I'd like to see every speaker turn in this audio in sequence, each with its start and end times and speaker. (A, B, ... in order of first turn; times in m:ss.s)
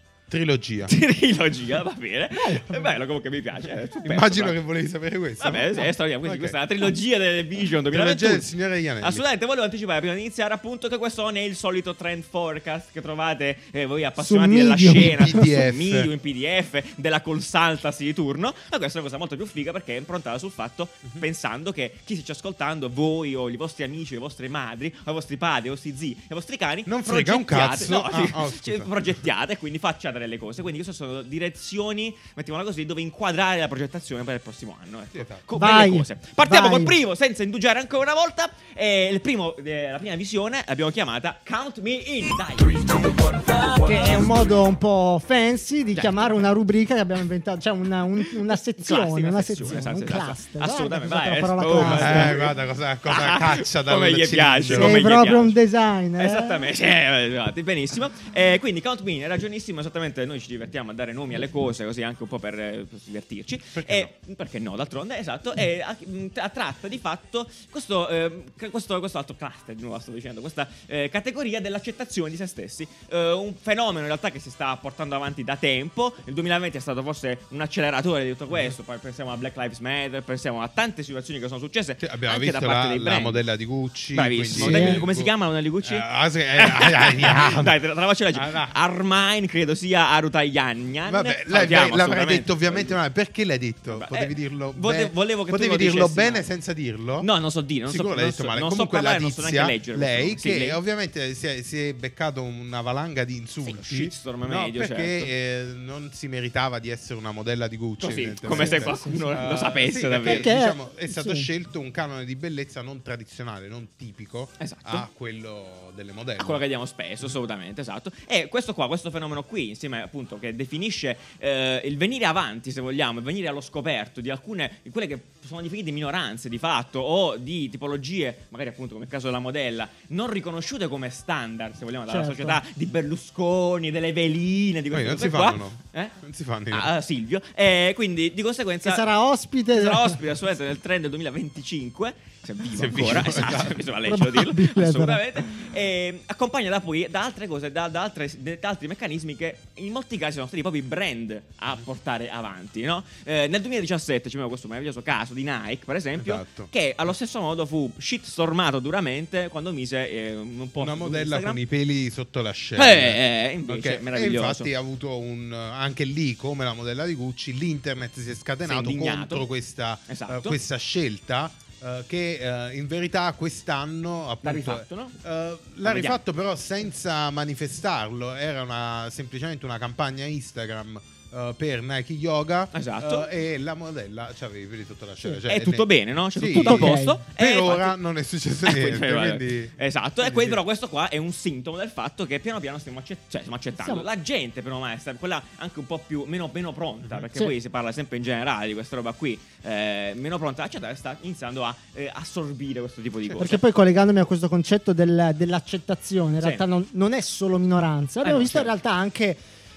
0:00.3-0:00.9 A
0:00.9-0:04.6 B
0:02.4-0:03.0 C
0:04.0-0:06.6 A
0:05.4-0:08.5 B
0:07.9-0:09.2 A
0:09.0-0:42.9 B
0:14.2-0:15.5 C
0:14.9-0:16.1 A
0:26.9-0:29.2 A
0:35.1-0:35.4 A
0:35.6-0:37.0 C
0:43.8-0:52.4 C
0:46.0-0:46.2 B
0:48.8-0:55.6 B
0:51.8-0:55.3 A
0:54.7-0:56.7 C
0:56.2-1:23.4 B
1:03.7-1:04.1 A
1:22.0-1:25.3 A
1:24.1-1:33.0 B
1:24.5-1:25.0 C
1:25.8-1:27.8 A
1:28.3-1:28.8 A
1:31.1-1:37.3 A
1:33.9-1:36.5 B
1:37.2-1:40.8 B
1:37.9-1:56.6 A
1:43.6-1:45.3 B
1:48.0-1:50.5 B
1:48.4-1:49.4 C
1:50.2-1:51.5 C
1:54.6-1:55.1 B
1:56.4-2:16.2 B
2:12.1-2:12.6 C
2:14.9-2:16.9 A
2:16.7-2:19.0 B
2:18.8-2:20.2 C
2:19.7-2:41.6 B
2:22.7-2:23.8 A
2:24.1-2:25.4 C
2:36.2-2:36.7 A
2:40.8-3:09.7 A
2:42.8-2:44.7 B
2:48.6-2:49.4 B
2:50.1-2:50.6 B
2:54.4-2:55.2 B
2:55.8-2:56.2 B
3:02.7-3:03.3 B
3:05.5-3:08.0 B
3:06.4-3:07.2 C
3:08.6-3:23.6 B
3:10.2-3:10.6 A
3:13.8-3:14.1 C
3:23.4-3:29.4 C
3:28.2-3:28.7 B